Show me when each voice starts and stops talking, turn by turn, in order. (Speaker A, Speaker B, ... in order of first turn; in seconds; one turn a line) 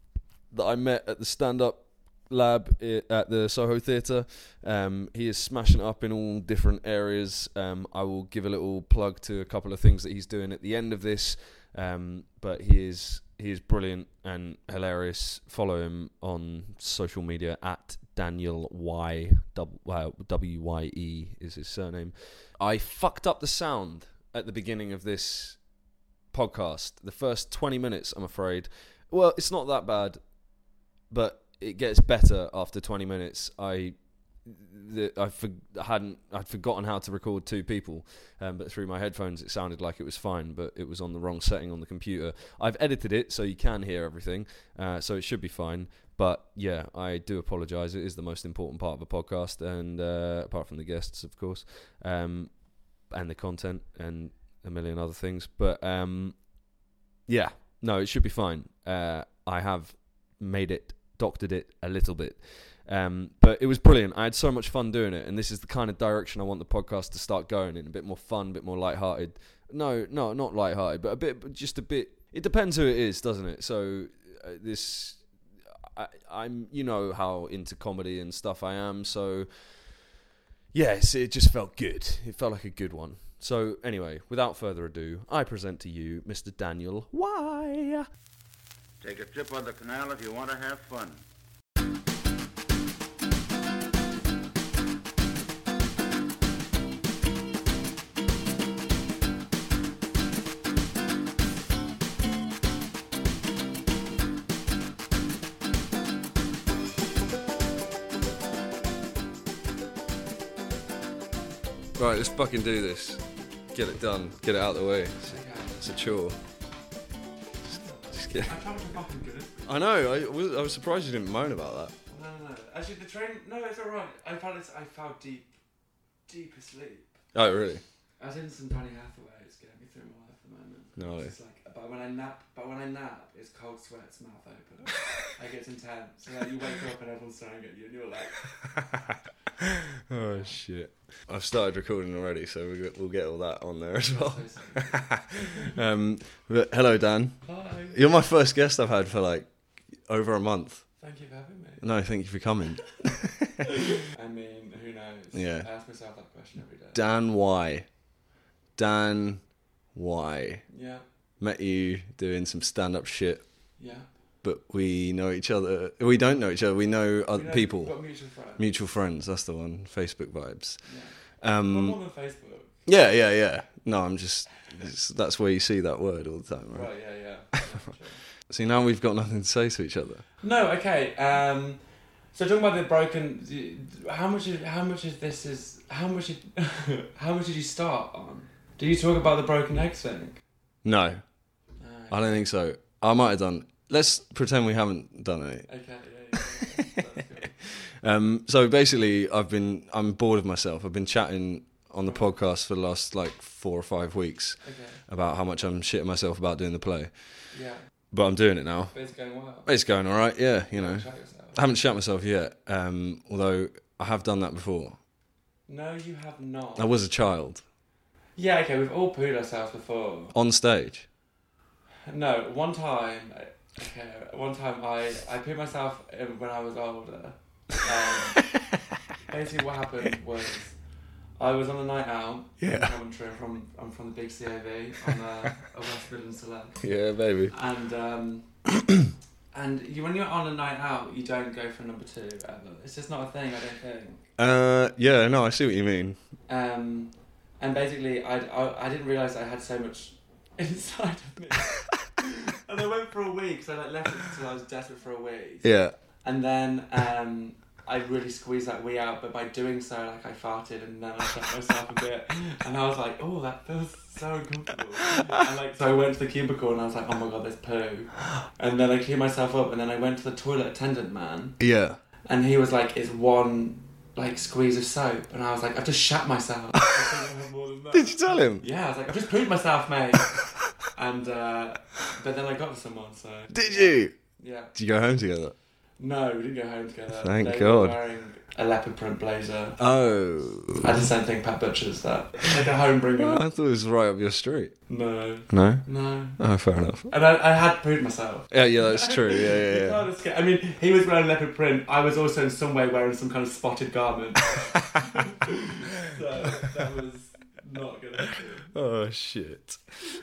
Speaker A: 0.5-25.6
Speaker A: 26.3-30.3
Speaker A: 31.1-56.5
Speaker A: 57.3-75.2
Speaker A: 75.9-79.9
Speaker A: 80.7-88.1
Speaker B: 89.0-91.2
Speaker A: 112.0-116.4
Speaker C: 115.2-116.0
Speaker C: 117.7-120.0
Speaker A: 118.1-118.6
Speaker A: 119.7-121.9
Speaker C: 122.1-125.5
Speaker C: 126.3-127.2
Speaker A: 127.3-127.8
Speaker C: 128.2-138.4
Speaker A: 131.0-131.3
Speaker A: 138.7-149.5
Speaker C: 140.1-140.6
Speaker C: 144.1-145.8
Speaker C: 147.4-148.0
Speaker A: 150.1-150.8
Speaker C: 151.0-151.8
Speaker A: 151.8-153.7
Speaker C: 153.9-157.0
Speaker A: 155.3-155.7
Speaker A: 156.9-157.9
Speaker A: 158.8-160.6
Speaker C: 160.7-161.0
Speaker A: 161.4-163.4
Speaker C: 163.8-164.1
Speaker A: 164.4-167.9
Speaker C: 167.3-168.6
Speaker A: 168.6-170.8
Speaker C: 170.8-172.8
Speaker A: 171.4-172.0
Speaker A: 172.8-176.9
Speaker C: 176.7-178.2
Speaker A: 178.5-180.2
Speaker C: 180.4-181.8
Speaker C: 182.3-190.4
Speaker A: 190.8-191.2
Speaker C: 191.8-192.4
Speaker A: 192.1-195.7
Speaker C: 195.7-197.6
Speaker A: 197.6-207.2
Speaker C: 202.0-202.3
Speaker C: 204.6-205.0
Speaker C: 207.5-207.8
Speaker A: 208.1-208.9
Speaker C: 208.9-209.7
Speaker A: 209.7-215.0
Speaker C: 210.7-211.6
Speaker C: 215.7-216.9
Speaker A: 216.8-217.6
Speaker C: 218.3-220.3
Speaker A: 220.3-221.1
Speaker C: 222.1-228.5
Speaker C: 229.3-230.8
Speaker C: 231.4-236.8
Speaker A: 232.6-232.9
Speaker A: 236.8-237.5
Speaker C: 237.5-238.5
Speaker C: 239.5-244.2
Speaker A: 244.4-246.2
Speaker C: 246.5-255.7
Speaker A: 255.6-255.9
Speaker C: 256.2-271.6
Speaker A: 265.1-265.4
Speaker A: 271.6-272.0
Speaker C: 272.2-280.3
Speaker A: 276.8-277.2
Speaker A: 277.9-278.6
Speaker A: 280.3-280.6
Speaker C: 280.9-284.7
Speaker A: 283.5-284.1
Speaker A: 284.7-285.5
Speaker C: 286.0-289.8
Speaker A: 287.1-288.0
Speaker A: 289.8-290.9
Speaker C: 290.8-293.4
Speaker A: 293.2-294.7
Speaker C: 294.9-296.4
Speaker A: 295.5-295.9
Speaker A: 296.4-297.1
Speaker C: 297.1-308.7
Speaker A: 298.5-300.0
Speaker A: 304.7-305.0
Speaker A: 308.7-309.8